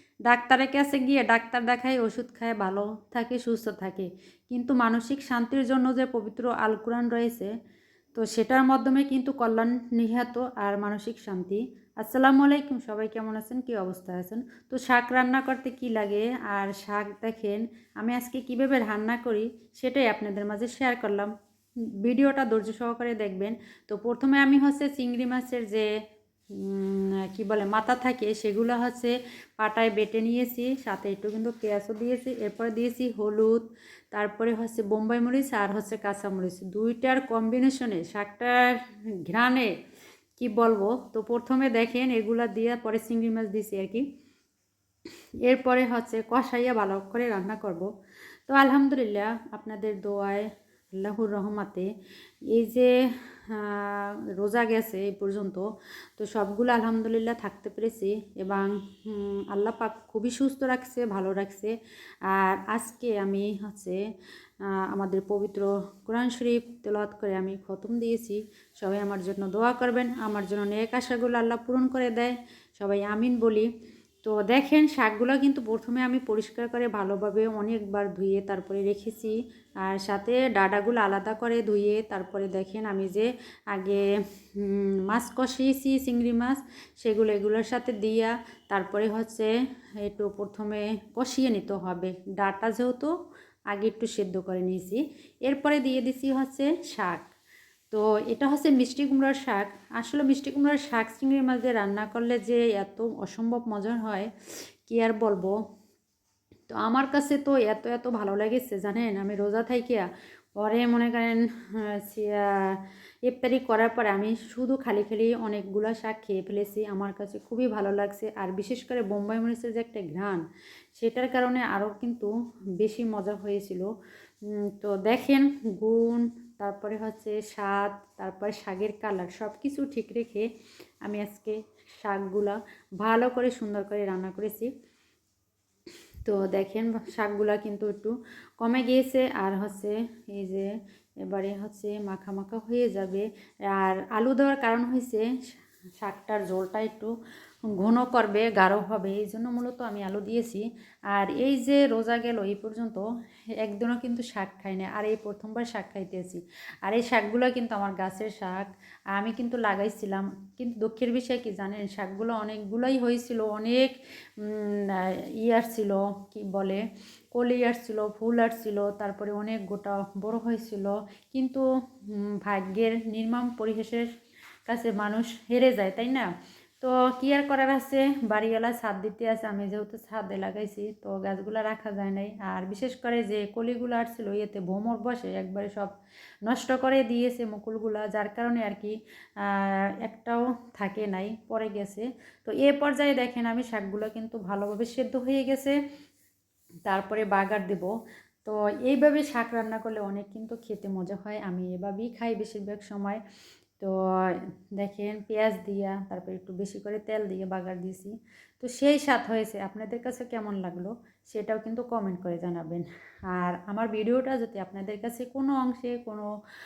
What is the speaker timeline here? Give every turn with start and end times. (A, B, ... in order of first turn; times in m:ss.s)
0:00.2-0:07.5 A
0:08.2-0:21.3 A
0:22.0-0:25.9 A
0:26.5-0:39.7 A
0:40.4-0:44.0 A
0:45.4-0:47.9 A
0:48.5-0:51.9 A
0:52.5-1:04.0 A
1:04.6-1:13.7 A
1:14.2-1:24.0 A
1:24.6-1:29.5 A
1:30.0-1:33.1 A
1:33.7-1:37.3 A
1:37.9-1:44.3 A
1:44.8-1:45.6 A
1:46.7-1:50.1 A
1:50.6-2:00.4 A
2:01.0-2:03.9 A
2:04.5-2:10.5 A
2:11.0-2:14.7 A
2:16.2-2:20.7 A
2:21.2-2:25.3 A
2:26.0-2:27.1 A
2:27.7-2:33.1 A
2:33.6-2:46.8 A
2:47.3-2:54.1 A
2:54.7-2:56.3 A
2:56.8-3:05.9 A
3:06.4-3:15.8 A
3:16.9-3:17.9 A
3:18.4-3:23.2 A
3:23.8-3:36.3 A